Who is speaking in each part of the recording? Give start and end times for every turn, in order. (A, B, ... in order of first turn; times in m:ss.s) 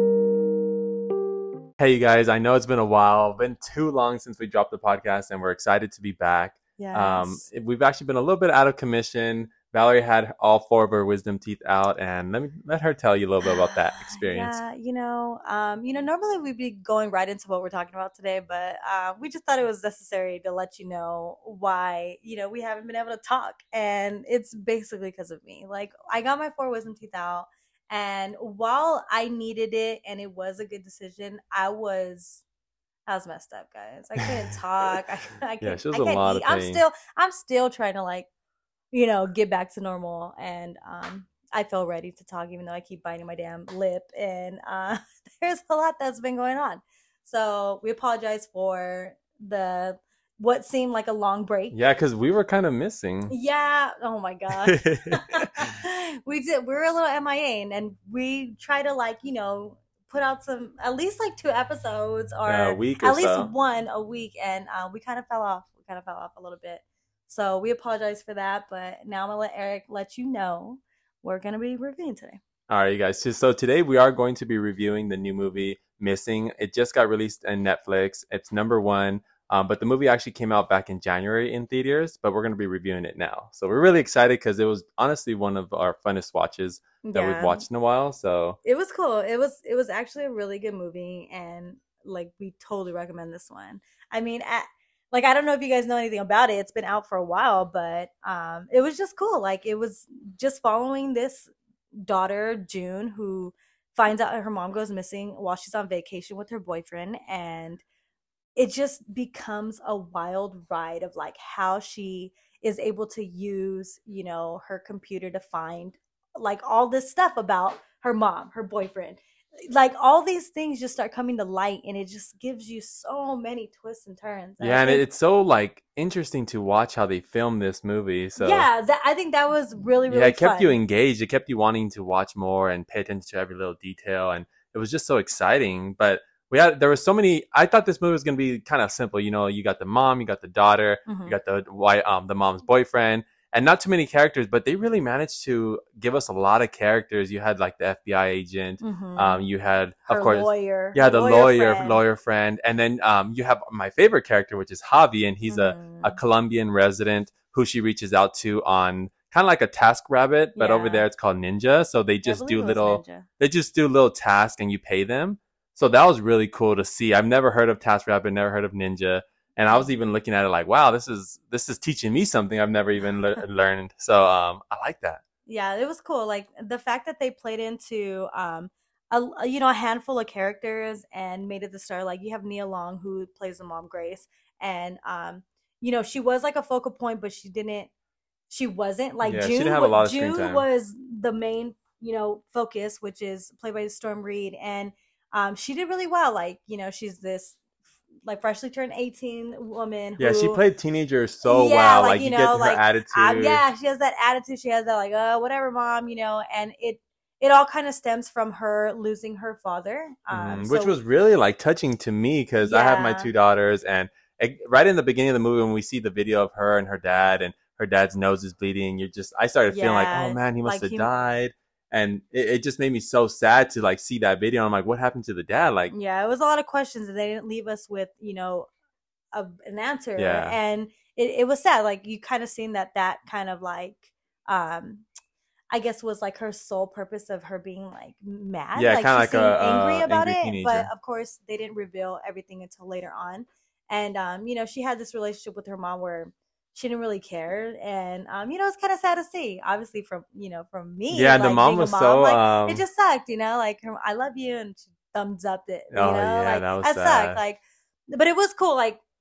0:01.8-0:14.6 A
0:06.8-0:07.4 B
0:13.4-0:32.4 B
0:33.0-0:38.3 B
0:35.6-0:36.8 A
0:38.9-0:51.8 B
0:51.7-0:53.3 A
0:53.3-1:12.4 B
0:54.6-0:55.7 A
1:02.4-1:03.5 A
1:12.7-1:28.6 A
1:27.0-1:27.6 B
1:28.6-1:41.5 B
1:42.0-1:47.8 B
1:48.6-2:05.0 B
2:04.6-2:08.7 A
2:08.4-2:10.8 B
2:10.1-2:55.2 A
2:21.1-2:21.3 B
2:28.8-2:29.5 B
2:30.1-2:32.0 B
2:35.5-2:36.2 B
2:40.6-2:41.1 B
2:42.2-2:43.3 B
2:49.7-2:49.9 B
2:55.5-3:07.9 B
3:08.5-3:17.6 B
3:09.2-3:10.7 A
3:18.2-3:20.6 B
3:20.2-3:23.6 A
3:21.4-3:31.0 B
3:30.3-3:45.9 A
3:32.6-3:33.3 B
3:39.7-3:41.1 B
3:45.9-3:48.7 B
3:49.3-3:55.1 B
3:50.2-3:50.6 A
3:55.7-4:19.0 B
3:58.8-4:00.9 A
4:11.1-4:12.8 A
4:15.9-4:17.4 A